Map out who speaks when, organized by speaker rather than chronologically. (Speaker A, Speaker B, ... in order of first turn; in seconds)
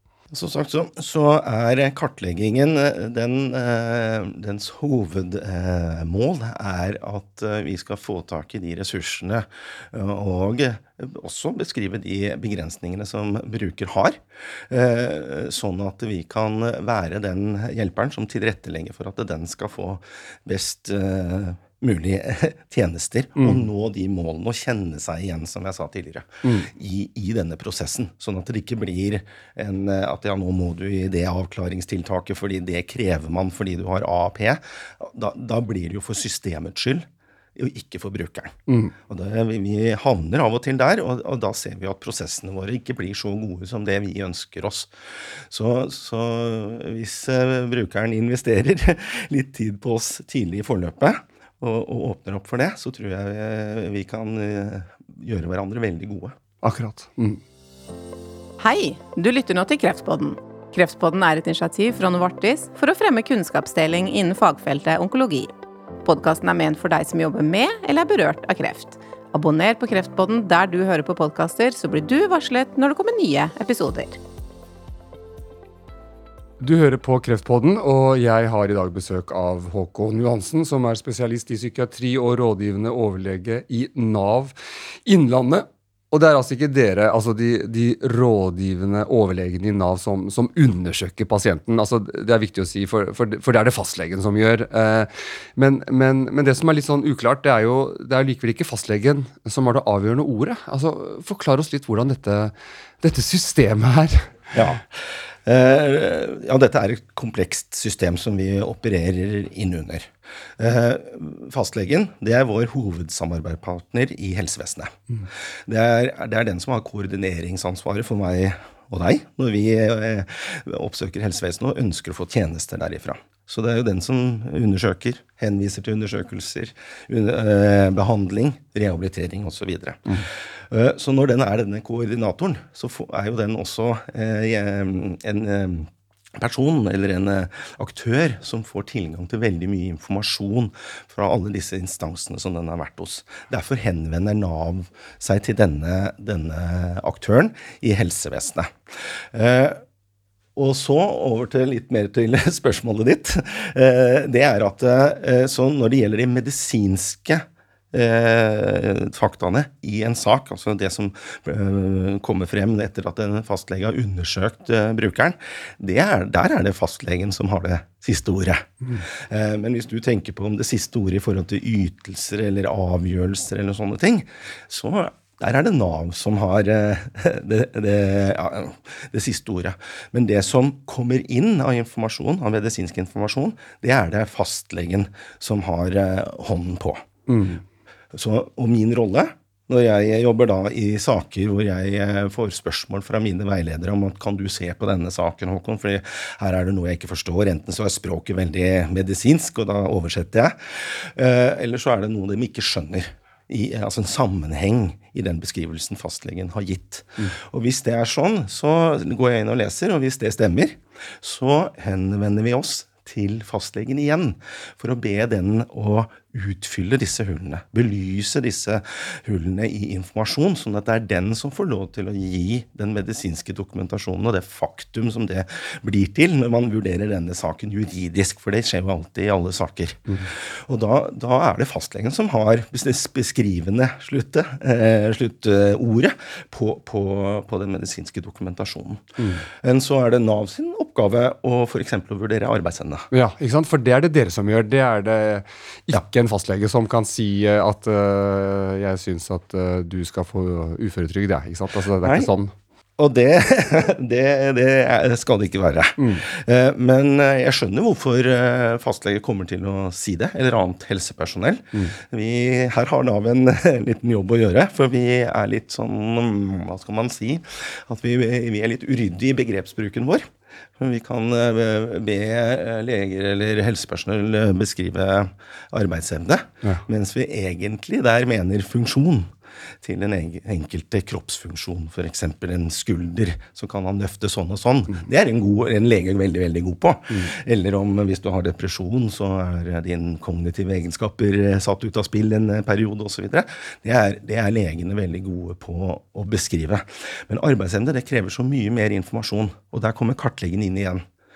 Speaker A: 0.3-44.9, 45.5-56.3, 104.5-149.8, 150.6-187.0, 188.1-243.1, 252.0-252.3, 253.0-279.3, 279.8-301.0
Speaker B: 23.4-23.6, 26.4-26.7, 38.7-38.9, 56.6-57.4, 76.6-84.5, 85.0-104.5, 187.3-187.6, 239.2-239.4, 243.1-252.5, 256.0-256.2
Speaker C: 58.6-65.5, 66.0-74.2